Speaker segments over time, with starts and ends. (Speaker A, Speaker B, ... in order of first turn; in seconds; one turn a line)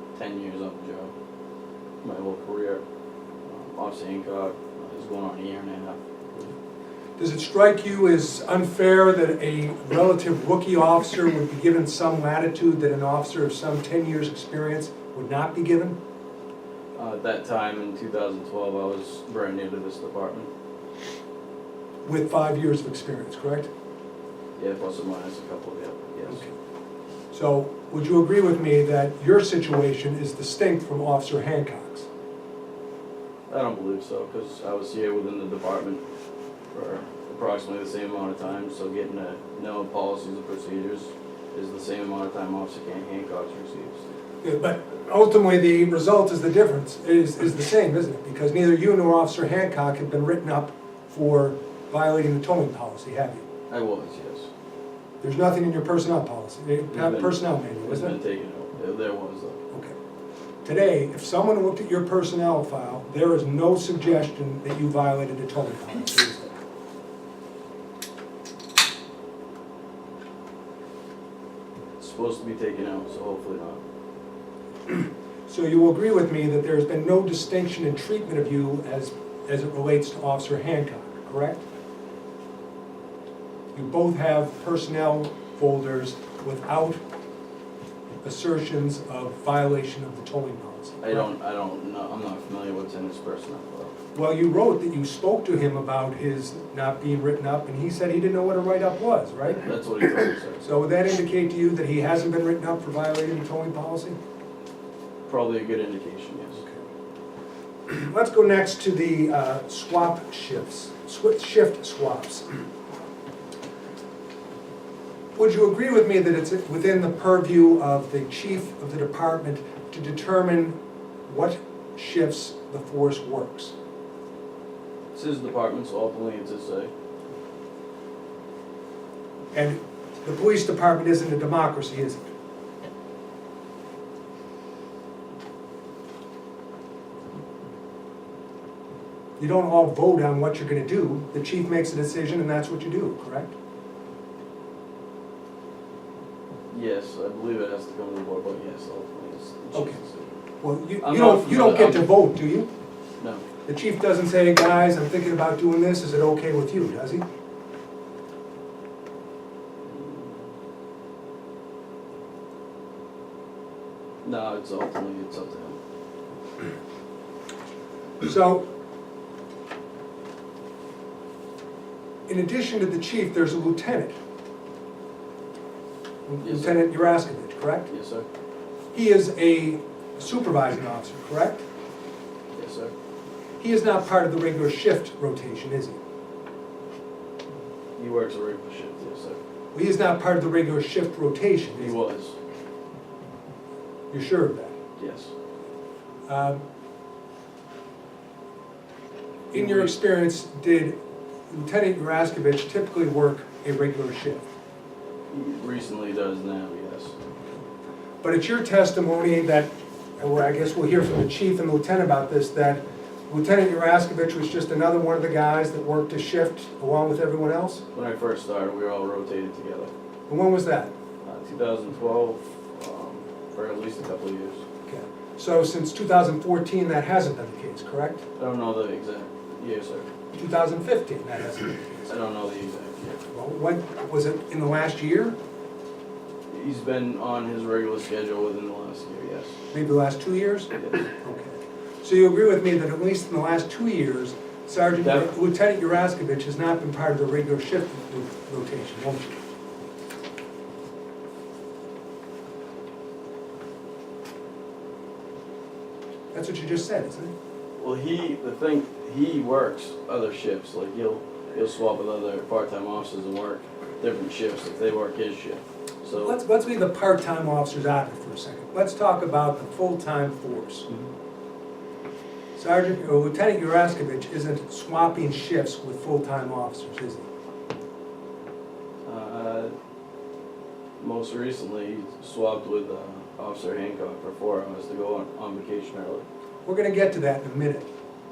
Speaker A: 0.1-1.1
Speaker A: 2.0-2.8
Speaker A: 3.5-6.5
Speaker B: 7.2-15.9
Speaker A: 16.9-20.5
Speaker B: 22.0-23.7
Speaker A: 24.6-26.4
Speaker B: 27.3-32.1
Speaker A: 33.5-36.0
Speaker A: 36.7-44.1
Speaker B: 44.4-53.4
Speaker A: 53.7-54.5
Speaker B: 55.2-58.1
Speaker A: 56.9-59.6
Speaker B: 60.6-66.6
Speaker A: 72.0-73.8
Speaker B: 74.9-81.6
Speaker B: 83.7-87.0
Speaker B: 88.2-91.3
Speaker A: 91.0-93.9
Speaker B: 94.1-99.6
Speaker A: 99.6-100.6
Speaker B: 100.6-104.2
Speaker A: 105.3-106.6
Speaker B: 107.9-112.5
Speaker B: 115.3-120.7
Speaker B: 121.3-123.7
Speaker A: 125.1-126.9
Speaker B: 129.5-132.2
Speaker B: 139.4-143.5
Speaker A: 146.7-150.4
Speaker B: 149.7-150.0
Speaker B: 150.6-152.7
Speaker A: 151.0-152.1
Speaker A: 153.2-153.4
Speaker B: 153.7-157.2
Speaker A: 159.8-160.4
Speaker A: 164.2-165.8
Speaker B: 168.2-168.6
Speaker B: 172.3-174.1
Speaker B: 176.3-177.9
Speaker A: 176.4-176.8
Speaker A: 177.9-178.2
Speaker B: 178.9-181.6
Speaker A: 182.5-182.9
Speaker B: 183.6-186.0
Speaker A: 188.0-189.4
Speaker B: 189.7-191.9
Speaker A: 191.8-192.3
Speaker B: 194.1-194.7
Speaker A: 195.0-195.3
Speaker B: 196.3-196.6
Speaker B: 199.5-200.9
Speaker A: 199.5-199.9
Speaker B: 201.5-204.4
Speaker A: 205.3-207.2
Speaker B: 208.2-217.8
Speaker A: 217.9-219.9
Speaker B: 220.3-220.9
Speaker A: 221.2-224.6
Speaker B: 224.9-228.2
Speaker A: 228.4-230.1
Speaker B: 230.3-232.1
Speaker A: 232.1-233.2
Speaker B: 233.3-235.3
Speaker A: 236.5-239.6
Speaker B: 239.7-249.4
Speaker A: 240.7-241.1
Speaker B: 256.3-257.3
Speaker A: 257.8-266.4
Speaker B: 266.2-270.9
Speaker B: 272.6-277.2
Speaker A: 279.0-279.7
Speaker A: 281.0-286.2
Speaker B: 286.6-287.9